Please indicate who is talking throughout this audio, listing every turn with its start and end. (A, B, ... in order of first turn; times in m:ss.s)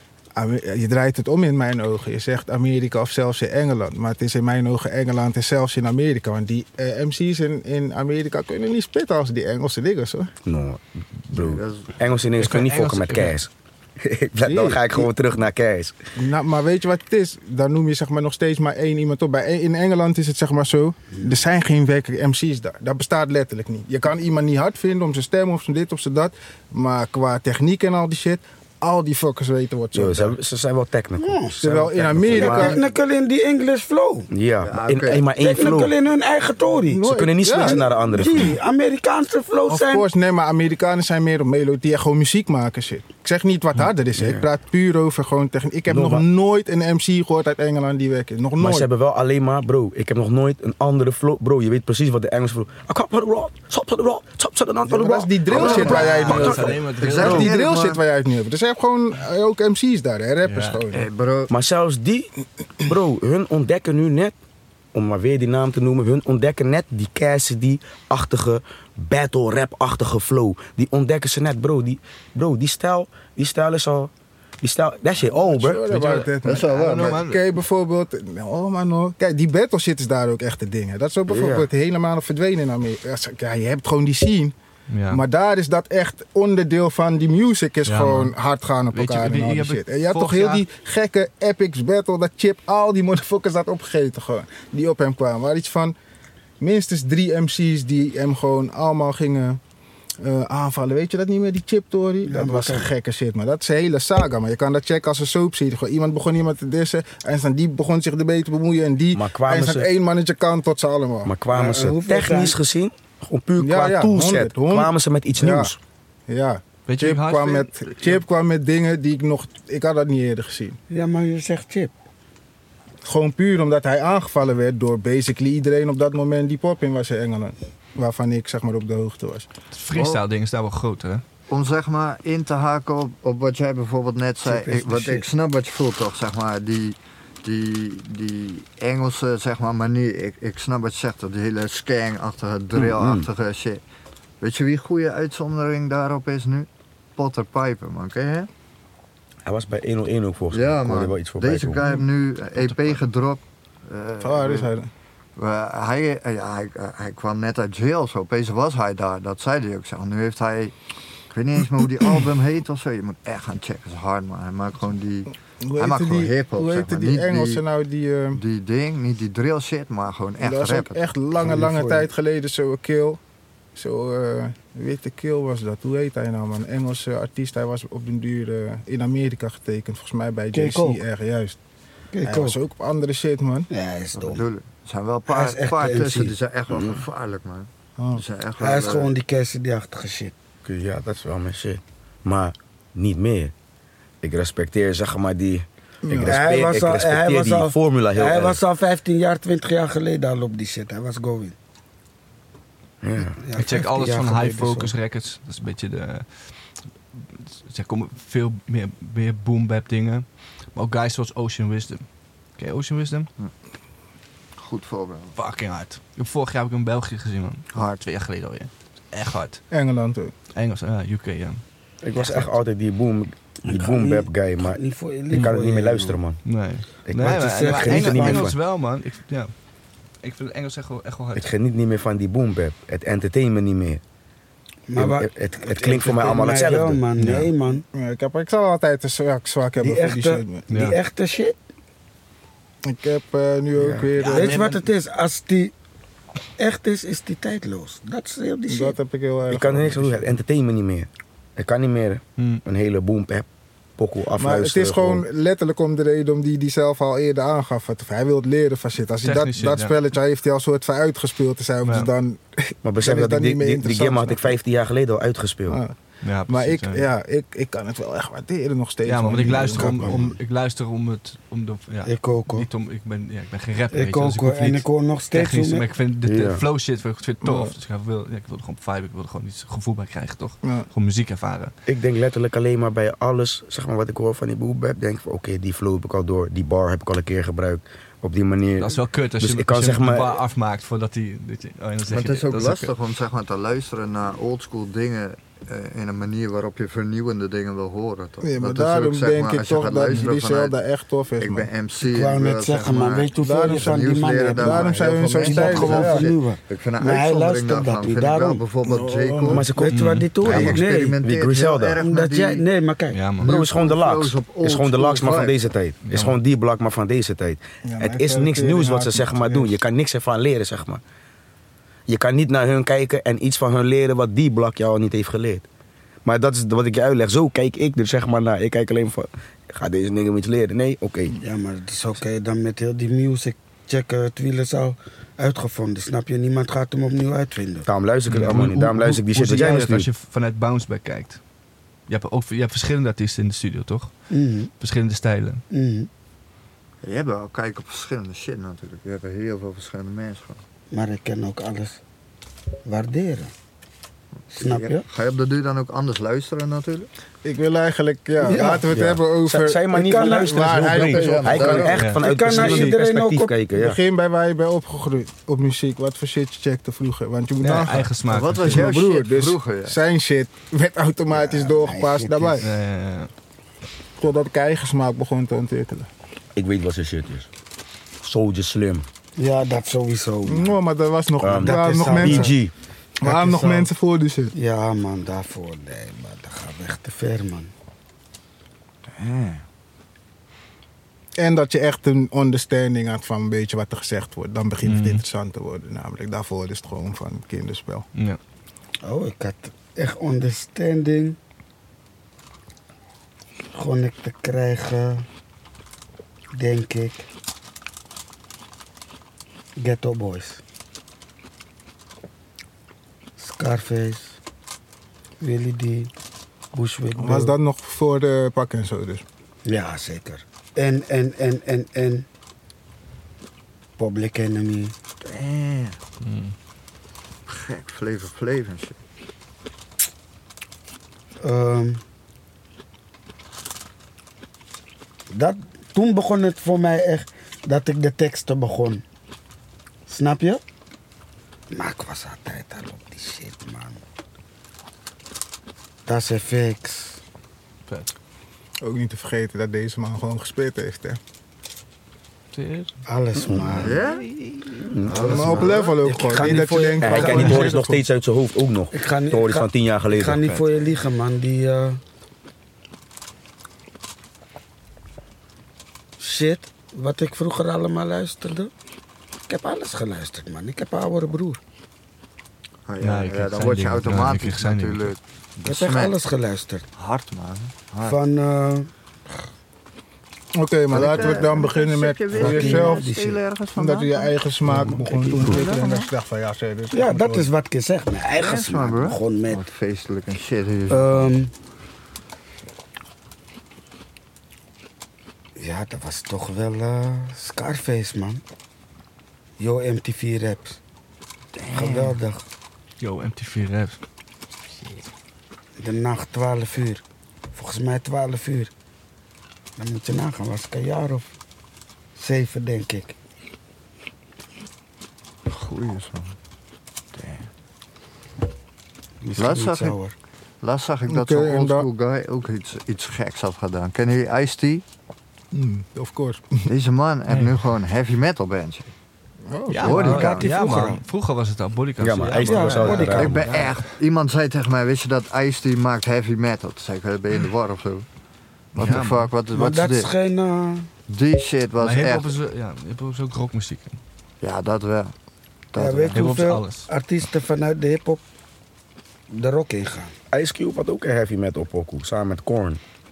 0:00.4-0:10.3 A
0:10.4-0:16.0 B
0:11.3-0:11.9 C
0:12.4-0:13.3 D
0:14.4-0:15.1 A
0:16.2-0:30.4 A
0:29.9-0:32.8 B
0:31.2-0:31.6 E
0:31.6-0:32.8 A
0:32.2-0:34.3 E
0:34.3-0:35.9 B
0:34.6-0:35.2 C
0:35.3-0:40.0 E
0:36.9-0:37.8 A
0:37.0-0:38.6 B
0:39.7-0:48.9 A
0:44.1-0:44.4 B
0:45.9-0:46.2 B
0:48.6-0:56.7 B
0:54.8-1:01.0 A
0:55.5-0:58.0 C
0:55.6-0:57.5 D
1:00.4-1:00.8 D
1:00.9-1:01.5 C
1:01.5-1:02.3 B
1:02.8-1:04.3 B
1:04.9-1:16.1 B
1:15.2-1:24.5 A
1:15.9-1:17.4 D
1:16.4-1:17.2 C
1:21.3-1:21.7 B
1:24.9-1:25.2 D
1:25.1-1:36.0 A
1:27.8-1:28.3 D
1:28.9-1:30.6 D
1:36.6-1:39.6 A
1:40.2-1:51.3 A
1:42.2-1:42.9 E
1:49.1-1:49.9 B
1:51.2-1:55.8 B
1:51.5-1:52.6 E
1:53.6-1:55.7 A
1:56.3-2:00.8 A
1:56.9-1:58.2 D
2:00.9-2:01.9 E
2:03.0-2:09.5 A
2:09.7-2:11.2 D
2:09.9-2:10.2 C
2:11.5-2:23.8 C
2:14.4-2:15.2 E
2:22.8-2:23.3 B
2:24.4-2:28.5 C
2:29.4-2:31.8 B
2:30.5-2:34.7 C
2:32.6-2:33.0 D
2:34.2-2:34.9 A
2:35.4-2:40.7 C
2:41.3-2:47.6 C
2:45.6-2:48.4 A
2:48.3-2:51.1 C
2:50.4-2:53.2 A
2:51.4-2:52.1 E
2:53.7-3:01.6 A
3:00.5-3:01.0 E
3:02.1-3:02.6 E
3:02.2-3:03.7 A
3:03.7-3:04.4 E
3:04.1-3:09.1 C
3:05.3-3:06.3 E
3:06.7-3:07.0 B
3:08.0-3:08.2 A
3:08.6-3:10.3 E
3:10.6-3:13.5 B
3:14.2-3:18.6 B
3:16.0-3:16.4 A
3:16.1-3:21.5 E
3:23.0-3:23.4 B
3:23.3-3:24.9 E
3:23.6-3:26.5 D
3:27.1-3:32.0 D
3:32.6-3:33.3 D
3:34.6-3:35.4 C
3:35.3-3:39.6 D
3:39.7-3:40.3 A
3:40.5-3:41.6 D
3:42.0-3:44.8 B
3:43.6-3:46.2 E
3:45.3-3:46.4 B
3:46.4-3:49.5 D
3:47.1-3:48.6 B
3:47.3-3:48.5 E
3:50.2-3:51.5 D
3:51.3-3:54.0 B
3:54.9-3:57.8 E
3:55.0-3:57.0 B
3:57.2-3:57.5 D
3:57.9-4:00.6 A
3:59.8-4:01.6 E
4:00.7-4:01.0 D
4:02.8-4:04.6 A
4:03.8-4:04.1 B
4:04.2-4:04.8 D
4:04.3-4:05.7 E
4:06.6-4:09.0 E
4:08.7-4:10.4 A
4:09.5-4:13.5 B
4:12.4-4:12.6 D
4:14.0-4:15.2 B
4:14.4-4:24.6 A
4:19.2-4:20.0 D
4:21.8-4:22.1 D
4:22.8-4:25.8 B
4:25.7-4:26.0 A
4:26.2-4:27.1 D
4:26.5-4:30.3 A
4:29.0-4:41.7 D
4:29.4-4:30.4 E
4:32.0-4:32.7 E
4:33.9-4:35.9 E
4:36.2-4:36.6 B
4:37.4-4:37.7 A
4:41.9-4:50.4 B
4:48.8-4:52.9 D
4:52.1-5:00.8 C
4:58.4-5:01.7 A
5:01.4-5:09.6 C
5:02.0-5:08.6 E
5:03.4-5:04.0 A
5:04.5-5:06.3 A
5:08.8-5:09.7 A
5:09.5-5:12.0 B
5:09.7-5:11.2 E
5:09.9-5:10.3 D
5:10.4-5:12.6 C
5:11.9-5:13.3 E
5:13.1-5:13.5 D
5:13.4-5:15.6 C
5:13.4-5:21.0 B
5:16.1-5:16.4 D
5:17.8-5:19.8 A
5:22.1-5:25.6 B
5:26.2-5:31.4 B
5:31.4-5:37.9 E
5:37.8-5:40.1 B
5:38.3-5:41.4 D
5:42.1-5:44.1 D
5:44.3-5:44.7 E
5:44.8-5:45.6 D
5:45.7-5:46.1 E
5:47.0-5:50.6 C
5:50.9-5:52.0 E
5:52.8-5:53.5 E
5:54.5-5:55.0 E
5:54.6-5:57.1 C
5:57.4-6:03.0 A
5:58.4-5:58.9 E
5:58.9-6:04.0 B
5:59.9-6:00.6 E
6:01.0-6:02.0 C
6:02.0-6:02.2 D
6:02.1-6:03.6 E
6:03.7-6:12.6 A
6:07.6-6:08.9 D
6:08.3-6:10.0 C
6:11.3-6:12.6 E
6:12.6-6:13.3 D
6:14.2-6:16.1 A
6:16.5-6:17.5 B
6:18.2-6:19.0 B
6:19.4-6:20.7 E
6:20.4-6:22.6 A
6:21.4-6:22.7 B
6:21.6-6:22.6 E
6:23.2-6:24.5 A
6:23.2-6:23.9 E
6:24.5-6:27.7 E
6:29.1-6:29.6 C
6:31.4-6:38.0 A
6:34.8-6:35.2 D
6:39.0-6:41.4 E
6:43.7-6:45.2 E
6:46.5-6:47.2 E
6:49.8-6:50.6 E
6:53.4-6:54.4 E
6:55.4-6:56.1 E
6:56.7-6:57.6 E
6:57.2-6:59.2 A
6:59.6-7:02.2 E
7:04.0-7:04.9 E
7:05.2-7:06.0 C
7:06.2-7:06.5 D
7:07.5-7:09.0 C
7:11.4-7:12.0 E
7:15.3-7:19.0 E
7:20.1-7:20.6 E
7:21.7-7:24.0 E
7:26.0-7:27.2 E
7:27.9-7:28.1 D
7:28.8-7:31.2 A
7:32.5-7:33.0 D
7:33.1-7:34.0 E
7:33.4-7:33.9 B
7:33.8-7:34.3 C
7:34.4-7:35.8 D
7:34.7-7:35.7 B
7:35.1-7:37.8 E
7:35.1-7:38.0 A
7:37.0-7:40.5 B
7:38.9-7:42.0 E
7:46.2-7:48.7 E
7:49.5-7:51.6 E
7:52.9-7:56.2 C
7:53.0-7:55.2 D
7:55.6-7:56.8 E
7:57.0-7:58.2 C
7:58.0-7:58.9 E
8:00.5-8:03.0 A
8:00.9-8:04.3 C
8:02.3-8:03.4 E
8:03.8-8:07.5 A
8:05.4-8:06.1 C
8:06.9-8:09.6 E
8:08.4-8:11.3 C
8:10.9-8:11.5 E
8:15.6-8:18.4 E
8:19.6-8:20.8 E
8:21.7-8:22.4 E
8:21.7-8:22.1 C
8:23.0-8:24.0 D
8:25.8-8:27.0 E
8:27.5-8:28.7 E
8:29.8-8:31.3 E
8:32.2-8:33.1 E
8:35.5-8:36.3 C
8:37.1-8:37.4 C
8:39.2-8:40.1 E
8:39.4-8:40.0 C
8:40.6-8:44.8 C
8:41.1-8:41.9 A
8:45.5-8:46.7 A
8:46.7-8:48.9 C
8:47.3-8:47.5 D
8:49.5-8:50.1 A
8:49.7-8:53.8 D
8:49.8-8:50.5 C
8:49.8-8:51.0 E
8:52.0-8:53.4 B
8:52.3-8:53.4 E
8:53.1-8:58.0 C
8:58.7-9:00.1 C
8:58.8-8:59.3 D
8:59.5-9:00.9 E
9:01.1-9:02.3 C
9:01.8-9:04.0 D
9:04.4-9:05.1 C
9:05.7-9:06.3 C
9:05.8-9:08.2 E
9:06.1-9:06.9 D
9:09.3-9:10.1 E
9:10.3-9:12.8 B